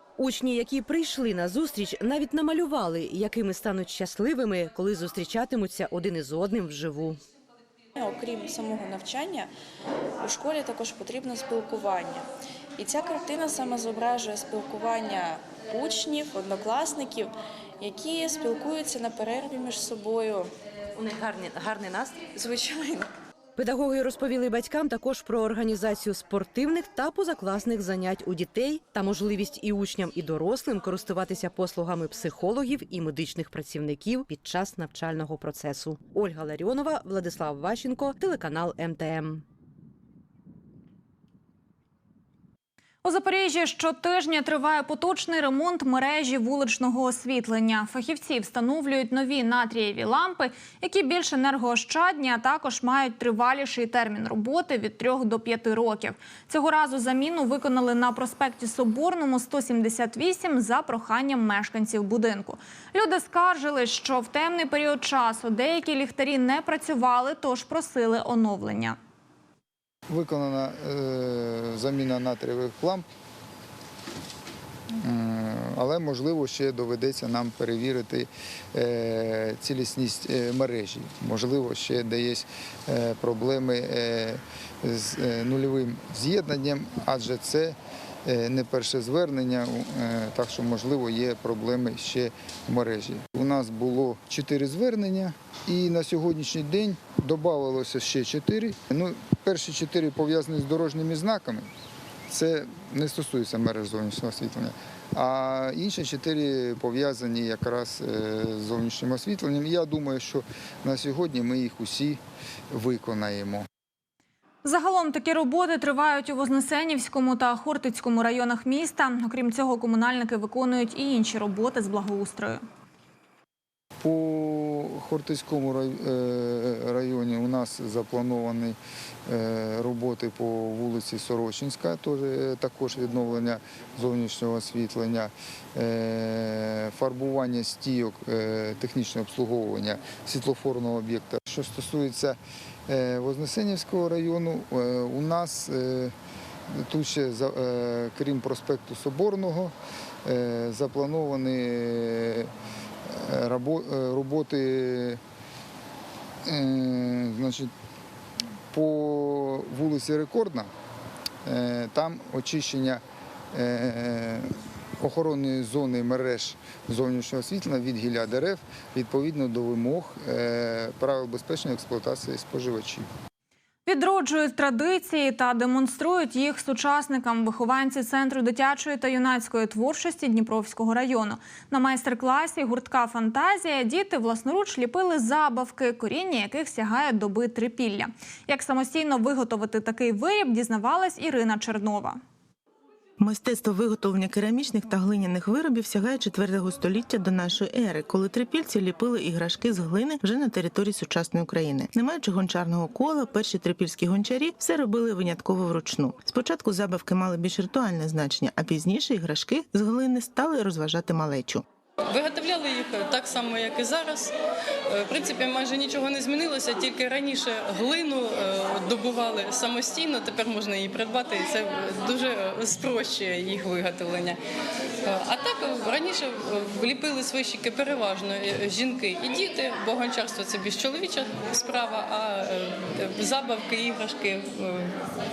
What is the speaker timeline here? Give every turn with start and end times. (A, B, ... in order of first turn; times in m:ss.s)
0:00.2-0:07.2 A
0:08.0-0:09.5 B
0:10.2-0:12.2 B
0:12.8-0:20.5 B
0:21.0-0:22.3 A
0:22.3-0:23.1 B
0:23.6-0:39.4 A
0:43.0-1:09.0 C
1:10.1-1:13.1 D
1:15.0-1:41.7 D
1:42.3-1:53.7 D
1:54.6-2:02.6 C
2:04.0-2:26.2 D
2:26.7-2:29.7 D
2:30.2-2:32.5 D
2:33.1-2:35.2 D
2:36.4-2:37.7 D
2:38.7-2:40.7 D
2:41.4-2:53.1 D
2:53.9-3:12.2 C
3:13.2-3:31.6 E
3:32.1-3:34.3 F
3:34.9-3:44.4 F
3:45.0-3:54.9 F